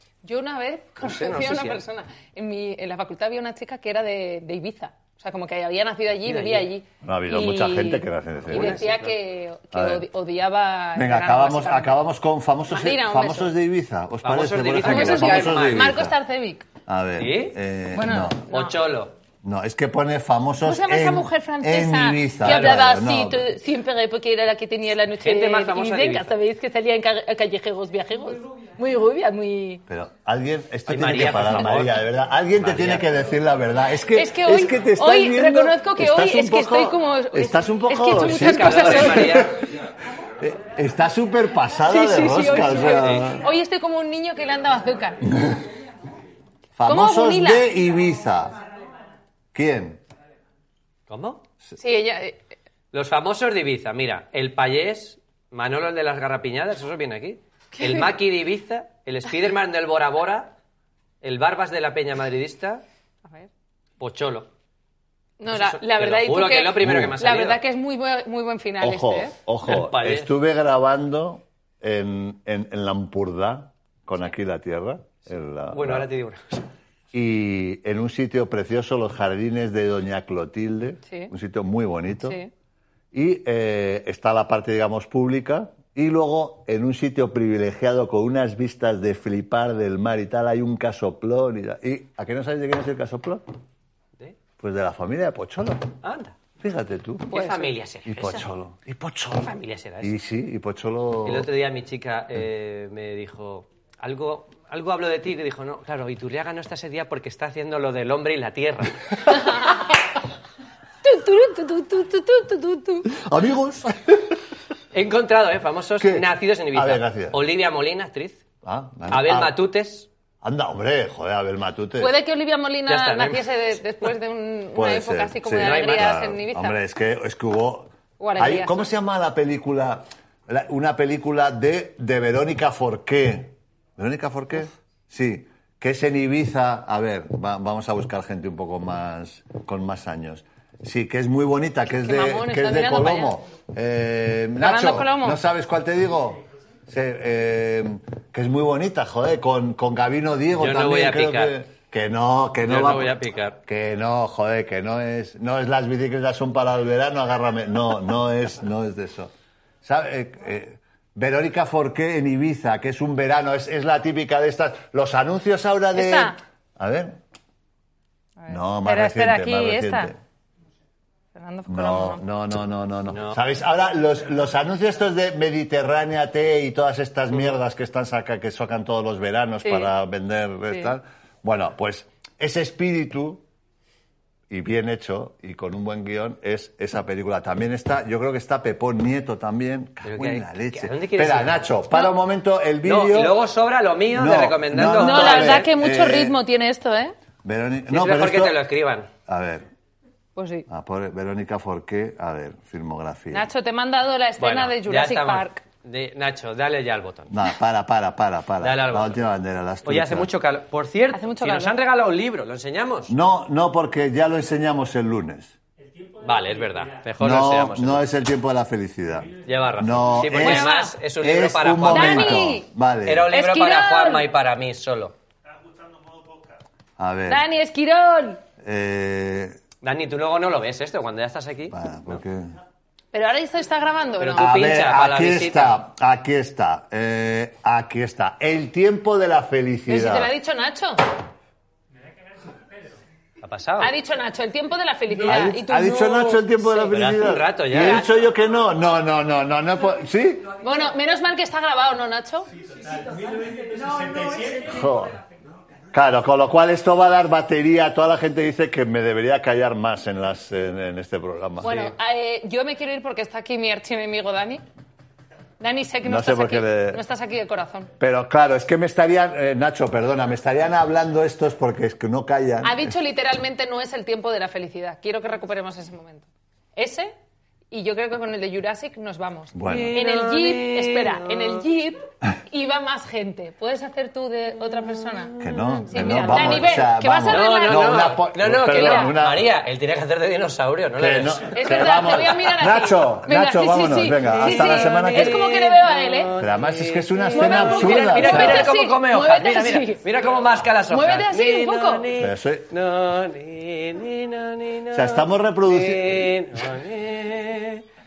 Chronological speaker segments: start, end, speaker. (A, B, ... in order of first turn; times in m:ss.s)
0:00.2-0:12.0 A
0:01.0-0:01.8 B
0:06.2-0:06.7 B
0:07.0-0:08.9 C
0:08.5-0:09.1 B
0:09.7-0:10.0 C
0:11.0-0:16.2 C
0:12.7-0:13.6 A
0:14.2-0:16.0 B
0:14.8-0:16.7 A
0:16.9-0:18.4 C
0:17.2-0:17.6 B
0:17.9-0:18.8 A
0:18.5-0:19.1 B
0:19.4-0:23.4 C
0:20.6-0:29.8 A
0:22.4-0:22.8 B
0:25.2-0:26.4 B
0:29.9-0:39.7 C
0:30.9-0:32.0 B
0:32.6-0:33.2 B
0:34.1-0:39.5 A
0:38.2-0:39.6 B
0:40.4-0:43.4 C
0:41.9-0:45.3 A
0:43.0-0:43.3 B
0:45.3-0:45.6 C
0:46.8-0:48.6 C
0:46.9-0:47.7 A
0:49.5-0:50.0 C
0:51.1-0:51.4 B
0:51.8-0:52.4 A
0:52.9-1:00.6 B
0:57.8-0:58.0 A
1:01.2-1:02.8 B
1:04.0-1:04.5 B
1:05.4-1:09.4 A
1:05.5-1:07.6 B
1:06.8-1:07.2 C
1:08.8-1:16.1 C
1:09.7-1:10.3 B
1:15.7-1:16.4 B
1:17.1-1:22.4 C
1:22.2-1:22.5 A
1:23.1-1:33.4 C
1:34.6-1:36.0 C
1:36.0-1:36.4 B
1:36.6-1:37.4 C
1:37.3-1:38.5 B
1:37.3-1:37.7 A
1:38.0-1:41.5 C
1:39.4-1:40.2 B
1:41.3-1:49.3 B
1:49.3-1:49.8 A
1:51.0-1:53.1 A
1:53.1-1:54.4 C
1:54.9-1:58.4 B
1:56.0-1:57.4 C
1:58.6-1:59.6 C
1:59.1-2:00.1 B
2:00.4-2:02.2 C
2:02.0-2:06.8 A
2:02.9-2:03.8 B
2:04.8-2:39.3 C
2:05.6-2:06.1 B
2:08.2-2:08.8 A
2:21.9-2:23.4 A
2:24.6-2:25.4 A
2:30.6-2:31.6 B
2:32.6-2:33.6 B
2:39.8-2:47.2 C
2:45.9-2:46.4 A
2:48.4-2:50.1 A
2:48.5-2:50.2 C
2:51.3-2:52.2 A
2:51.7-3:03.4 C
2:53.1-2:53.4 B
2:59.6-2:59.9 A
3:04.5-3:13.4 C
3:10.0-3:11.7 B
3:12.8-3:15.7 B
3:14.1-3:16.4 C
3:14.9-3:17.1 A
3:17.4-3:18.6 C
3:17.9-3:19.1 B
3:19.3-3:19.7 C
3:20.4-3:20.7 A
3:20.7-3:23.5 C
3:23.3-3:25.6 A
3:24.4-3:27.4 B
3:27.3-3:30.3 C
3:28.6-3:29.2 B
3:29.8-3:33.1 B
3:31.1-3:31.8 A
3:33.1-3:35.6 C
3:36.2-3:38.1 B
3:37.2-3:40.7 C
3:39.4-3:45.1 B
3:40.4-3:41.0 A
3:41.2-3:43.3 C
3:41.9-3:42.7 A
3:43.3-3:44.3 A
3:47.0-3:47.4 C
3:47.3-3:48.4 A
3:48.6-3:49.6 C
3:49.8-3:52.2 B
3:51.7-3:52.5 C
3:53.1-3:54.6 A
3:54.2-3:55.8 B
3:54.4-4:00.3 C
3:59.9-4:01.0 A
4:03.4-4:03.9 B
4:03.8-4:06.9 A
4:05.2-4:10.5 C
4:06.9-4:08.1 B
4:10.6-4:12.5 A
4:14.4-4:15.2 C
4:15.9-4:21.8 C
4:21.6-4:24.6 A
4:21.6-4:21.9 B
4:25.6-4:27.9 A
4:26.0-4:27.0 C
4:28.0-4:32.9 C
4:32.6-4:37.1 A
4:37.7-4:48.1 A
4:39.5-4:40.0 C
4:39.7-4:41.6 B
4:45.4-4:46.6 B
4:45.4-4:49.5 C
4:47.2-4:52.2 B
4:48.7-4:49.2 A
4:51.0-4:55.5 C
4:51.5-4:56.3 A
4:54.2-5:07.8 B
4:56.4-4:58.7 C
4:57.3-5:00.1 A
5:00.9-5:02.1 A
5:02.2-5:02.7 C
5:04.9-5:06.4 C